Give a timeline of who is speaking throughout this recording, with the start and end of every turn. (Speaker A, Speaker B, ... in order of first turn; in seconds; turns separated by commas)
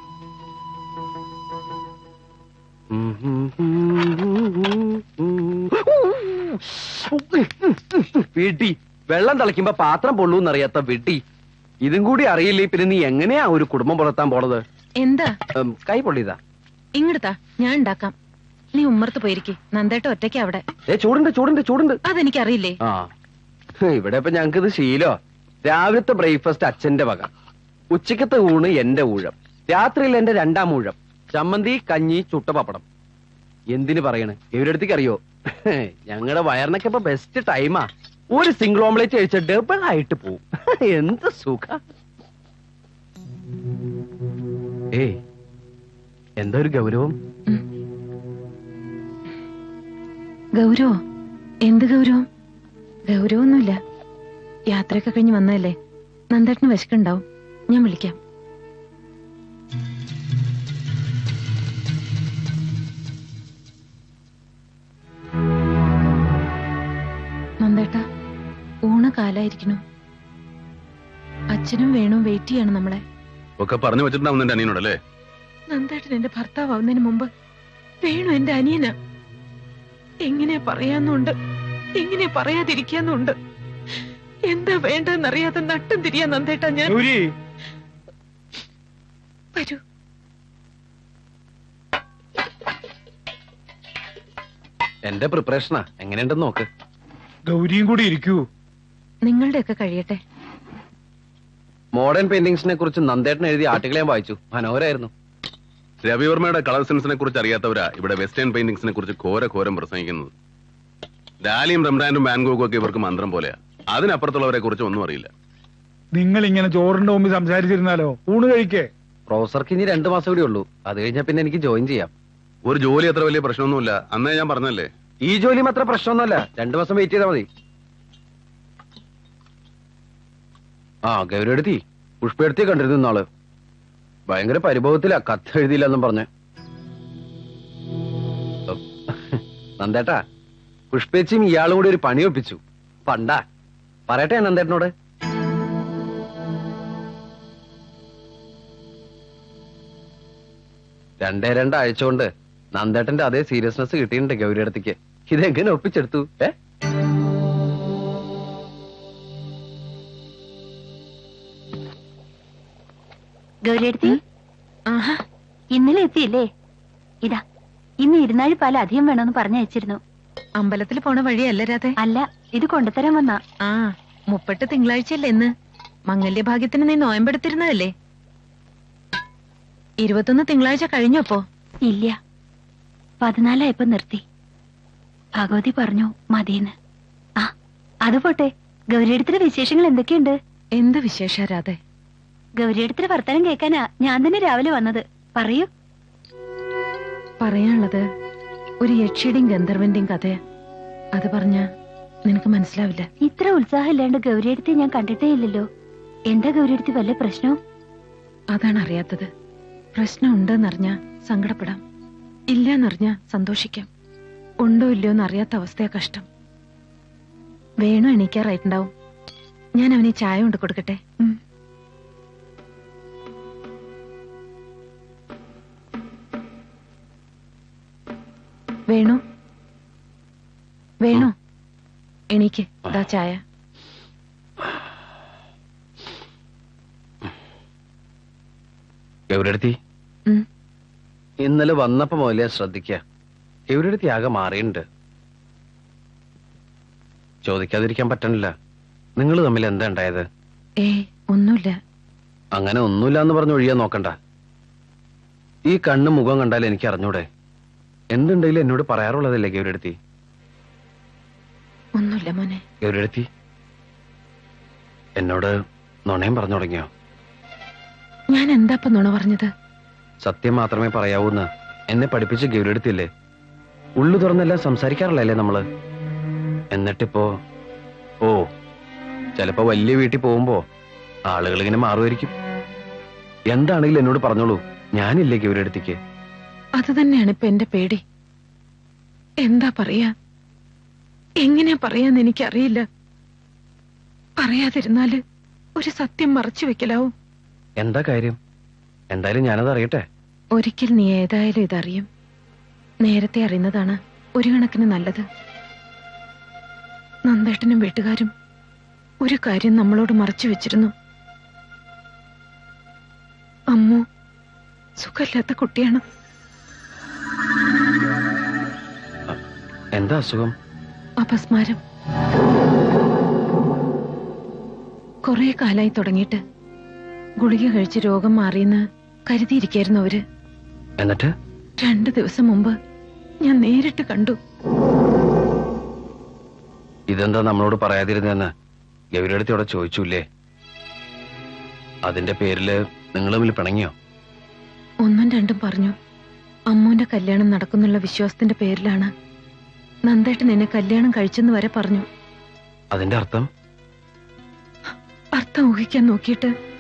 Speaker A: 2.9-11.2, Speaker A: 11.8-14.6, Speaker B: 15.0-15.3, Speaker A: 15.7-16.4, Speaker B: 17.0-18.1, Speaker B: 18.8-20.6, Speaker A: 20.9-22.0, Speaker B: 22.1-22.8, Speaker A: 22.8-23.1, Speaker A: 23.9-27.3, Speaker A: 27.9-32.8, Speaker A: 33.7-41.8, Speaker A: 46.4-47.1, Speaker B: 50.6-50.9, Speaker B: 51.7-52.2, Speaker B: 53.1-53.8, Speaker B: 54.7-55.8, Speaker B: 56.3-58.2, Speaker B: 67.6-68.0, Speaker B: 68.9-69.8, Speaker B: 71.5-73.0, Speaker C: 73.6-75.0, Speaker B: 75.7-77.3, Speaker B: 78.0-78.9, Speaker B: 80.3-81.3, Speaker B: 82.0-83.3, Speaker B: 84.5-87.0, Speaker D: 86.9-87.3, Speaker A: 95.1-96.7, Speaker D: 97.5-98.4, Speaker B: 99.2-100.2, Speaker A: 102.0-105.1, Speaker C: 106.0-110.3, Speaker C: 111.4-115.3, Speaker D: 116.2-118.9, Speaker A: 119.3-122.1, Speaker C: 122.7-124.9, Speaker A: 125.2-127.5, Speaker A: 131.1-133.3, Speaker A: 134.3-136.3, Speaker A: 138.7-140.2, Speaker A: 140.9-143.4, Speaker A: 144.1-144.9, Speaker A: 151.2-156.5, Speaker E: 163.6-164.2, Speaker B: 164.9-165.2, Speaker E: 165.7-166.4, Speaker E: 168.0-170.0, Speaker B: 170.6-171.9, Speaker E: 172.0-173.4, Speaker B: 174.3-175.5, Speaker B: 176.1-177.9, Speaker B: 180.0-181.4, Speaker E: 181.8-182.2, Speaker E: 183.2-184.2, Speaker E: 185.4-186.7, Speaker E: 188.1-190.3, Speaker B: 190.8-191.8, Speaker E: 192.6-195.7, Speaker B: 197.4-198.0, Speaker B: 198.8-200.4, Speaker B: 201.2-201.7, Speaker B: 202.3-203.1, Speaker E: 203.2-205.7, Speaker E: 206.3-207.6, Speaker B: 208.5-209.3, Speaker B: 209.9-211.8, Speaker B: 212.5-213.9, Speaker B: 214.6-216.3, Speaker B: 217.8-218.9, Speaker B: 219.8-221.3, Speaker B: 228.9-229.2, Speaker B: 231.0-231.3, Speaker B: 232.3-233.4, Speaker A: 239.3-239.8, Speaker A: 241.4-243.0, Speaker A: 243.7-244.8, Speaker A: 247.5-248.5, Speaker A: 249.2-250.3, Speaker B: 250.8-251.8, Speaker A: 252.6-254.2, Speaker A: 255.7-257.3, Speaker A: 258.1-260.0, Speaker B: 262.0-262.6, Speaker A: 262.8-263.2, Speaker A: 265.2-265.5, Speaker A: 266.1-266.9, Speaker B: 268.3-269.5, Speaker A: 270.2-273.1, Speaker A: 274.0-275.6, Speaker A: 276.7-277.3, Speaker A: 279.4-280.6, Speaker A: 281.3-282.3, Speaker A: 283.5-286.0, Speaker B: 286.8-288.0, Speaker B: 289.4-290.1, Speaker B: 291.4-292.8, Speaker B: 294.4-295.2, Speaker B: 295.8-297.1, Speaker A: 297.8-298.4, Speaker A: 299.1-300.0, Speaker B: 300.6-302.1, Speaker B: 303.1-305.3, Speaker B: 307.3-308.3, Speaker B: 309.2-310.9, Speaker B: 313.7-314.0, Speaker B: 315.0-316.0, Speaker A: 320.0-320.5, Speaker B: 321.2-321.8, Speaker B: 325.3-326.4, Speaker B: 327.4-330.2, Speaker A: 331.0-331.3, Speaker B: 331.8-332.8, Speaker B: 333.4-334.4, Speaker A: 337.1-338.5, Speaker A: 339.2-340.2, Speaker A: 342.1-343.9, Speaker B: 345.0-345.9, Speaker B: 346.7-349.1, Speaker B: 350.1-352.1, Speaker A: 352.9-353.5, Speaker B: 355.4-356.5